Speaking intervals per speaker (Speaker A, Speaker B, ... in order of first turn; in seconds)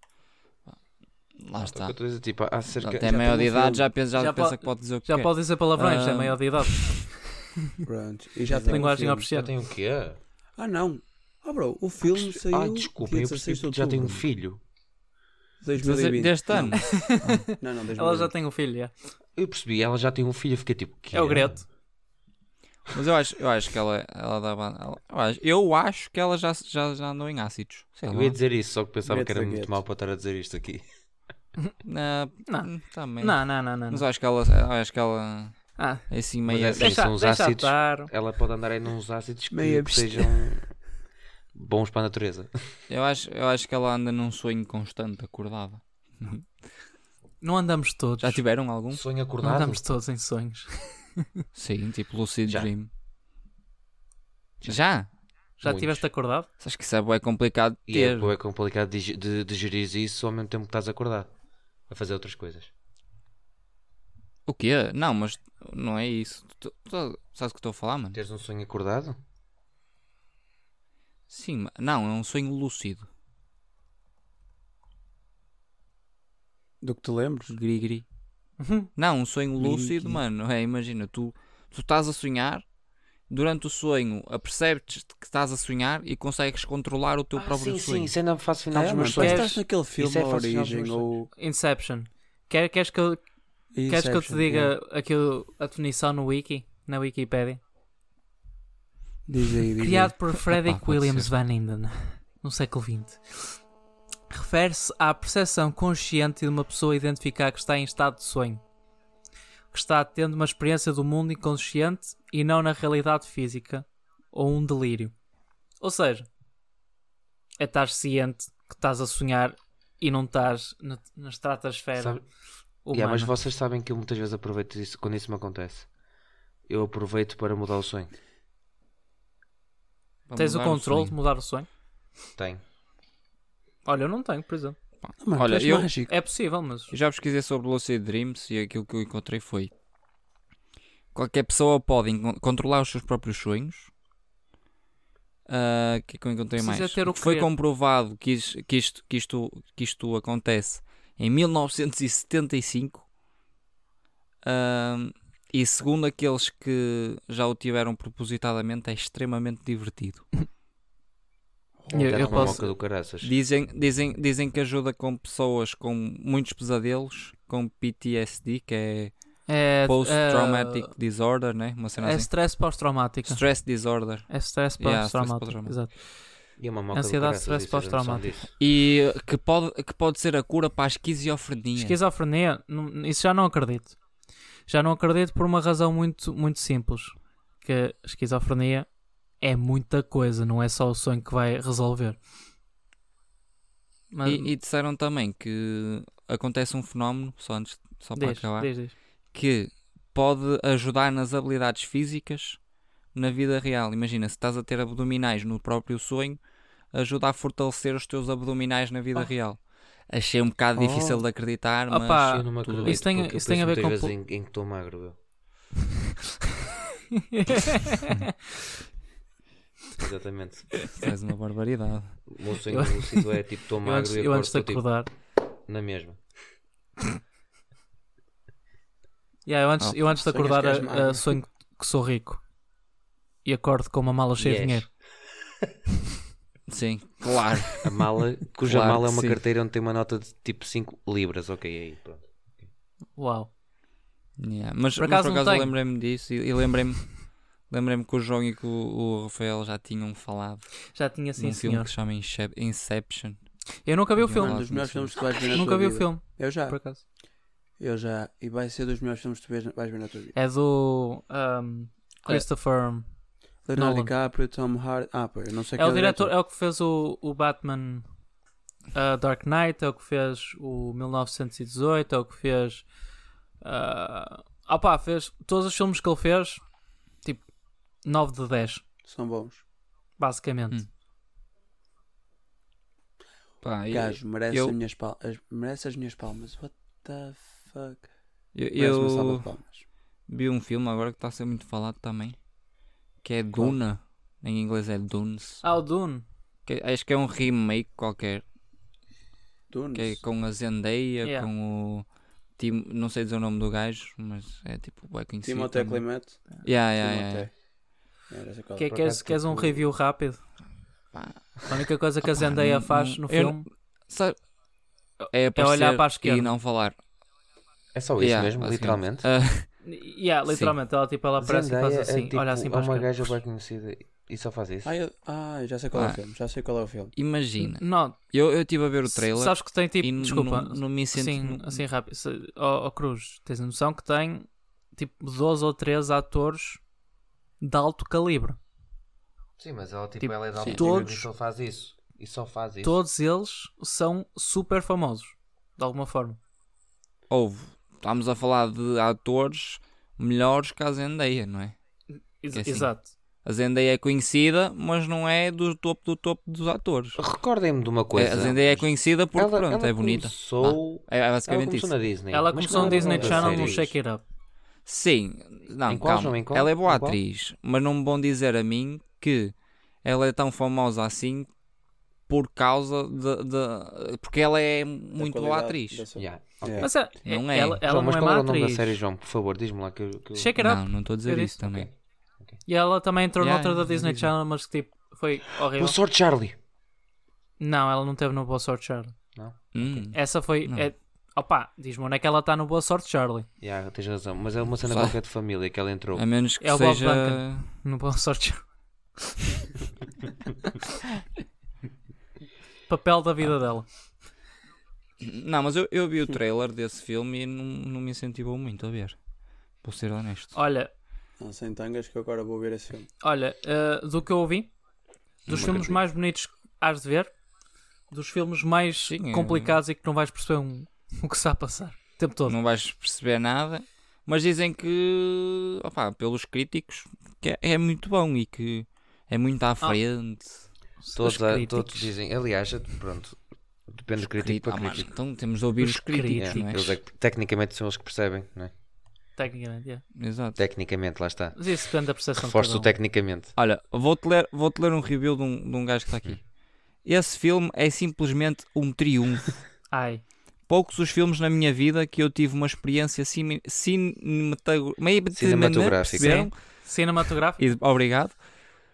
Speaker A: 1.4-1.9, 2.8-7.0, 15.8-17.4, 22.9-28.4, 31.8-35.6, 36.1-37.0, 42.9-46.5, 48.2-49.0, 51.5-52.9, 54.6-55.1, 56.6-58.3, 64.5-68.2, 71.3-73.1, 77.5-78.0, 79.0-82.7, 83.3-88.1, 100.5-101.3, 130.3-131.2, 135.0-135.9, 136.9-139.7, 141.1-143.9, 145.5-153.1, 154.4-160.3, 163.2-169.1, 169.8-172.3, 173.3-175.8, 178.6-182.0, 194.2-198.7, 199.3-202.6, 203.1-206.4, 206.9-213.0, 220.9-222.3, 236.7-237.9, 238.7-239.4, 244.4-250.8, 251.4-253.4, 254.2-255.4, 283.6-284.8, 288.6-289.5, 290.3-292.4, 293.2-295.6, 296.7-298.4, 299.9-302.1, 302.6-306.1, 306.6-307.5, 311.1-314.4, 315.3-317.0, 318.2-319.7, 320.5-320.8, 327.1-331.8, 347.3-351.8, 352.5-352.9, 353.4-357.2, 358.1-361.9, 364.9-371.5, 372.3-376.1, 377.2-377.8, 380.6-381.9, 383.4-384.3, 389.8-390.9, 394.9-395.1, 396.2-397.7, 405.2-409.2, 409.8-410.6, 415.5-415.8, 419.1-419.8, 422.5-430.6, 434.2-437.0, 440.2-440.6, 443.6-446.4, 447.0-449.6, 450.7-456.7, 457.6-458.4
Speaker B: 1.6-3.7, 8.6-10.2, 12.0-14.6, 19.4-21.6, 28.1-30.8, 36.5-40.7, 41.5-42.5, 48.9-49.9, 52.5-52.7, 55.6-56.0, 57.9-61.3, 61.9-62.7, 68.1-69.2, 87.4-91.1, 122.0-122.2, 122.9-125.9, 126.7-128.1, 132.4-132.6, 162.0-163.3, 176.6-178.5, 212.2-215.2, 220.0-220.9, 222.3-224.8, 225.7-226.2, 234.4-234.9, 237.8-242.3, 308.9-309.7, 317.9-319.3, 321.4-324.9, 339.6-343.0, 357.2-363.9, 365.9-367.2, 376.2-377.0, 377.8-380.6, 381.6-381.9, 385.7-386.6, 389.4-390.0, 393.6-396.2, 415.5-416.0, 431.1-433.4, 433.9-435.1, 436.4-438.7, 440.6-441.8, 442.4-443.5, 455.3-456.5
Speaker C: 3.3-3.9, 7.8-9.3, 10.6-14.2, 15.6-16.8, 17.6-18.3, 29.1-29.8, 39.5-40.6, 76.8-77.6, 79.6-80.2, 88.7-91.3, 93.7-94.7, 99.3-100.2, 135.2-136.1, 161.8-162.7, 210.8-211.2, 230.2-231.4, 254.3-256.8, 257.8-260.3, 263.7-266.3, 279.1-279.6, 283.9-288.1, 288.8-289.8, 299.7-300.2, 305.4-307.5, 308.3-309.7, 324.8-327.1, 362.6-363.8, 375.2-376.9, 411.4-413.1
Speaker D: 4.2-7.5, 8.5-9.5, 16.7-18.9, 21.1-21.6, 32.5-34.0, 35.8-36.1, 36.8-38.1, 47.4-48.4, 49.4-51.5, 55.6-56.5, 78.6-78.9, 89.2-89.6, 91.4-93.2, 93.9-97.6, 99.8-103.6, 104.3-108.6, 109.7-115.1, 115.8-116.3, 117.6-122.2, 122.9-123.3, 130.4-131.7, 133.8-134.8, 136.1-136.9, 146.6-147.5, 161.9-162.6, 169.5-170.9, 172.0-173.4, 174.3-176.0, 176.9-178.3, 181.8-183.9, 184.7-188.9, 189.4-192.2, 194.1-194.5, 198.2-198.9, 211.9-214.1, 217.1-218.5, 222.7-223.3, 223.8-225.1, 229.4-232.4, 233.4-234.9, 243.2-243.5, 245.0-245.7, 250.9-251.9, 253.8-254.6, 255.4-257.0, 260.4-263.1, 263.8-264.1, 265.8-268.1, 268.9-272.9, 273.6-276.6, 278.0-278.8, 280.2-280.8, 295.6-296.2, 301.2-301.5, 308.8-310.4, 311.7-313.7, 315.2-316.5, 319.8-323.4, 327.6-328.2, 329.1-336.8, 337.6-338.6, 340.2-341.3, 342.8-346.4, 352.4-353.1, 362.3-364.2, 376.8-379.0, 380.4-381.6, 382.7-386.0, 387.6-389.1, 390.0-393.5, 396.6-398.6, 399.2-399.7, 402.9-403.9, 410.6-410.9, 413.2-414.7, 415.5-417.3, 418.1-422.6, 431.0-432.1, 435.8-436.7, 439.4-440.0, 441.6-442.9, 449.9-450.2, 456.2-457.6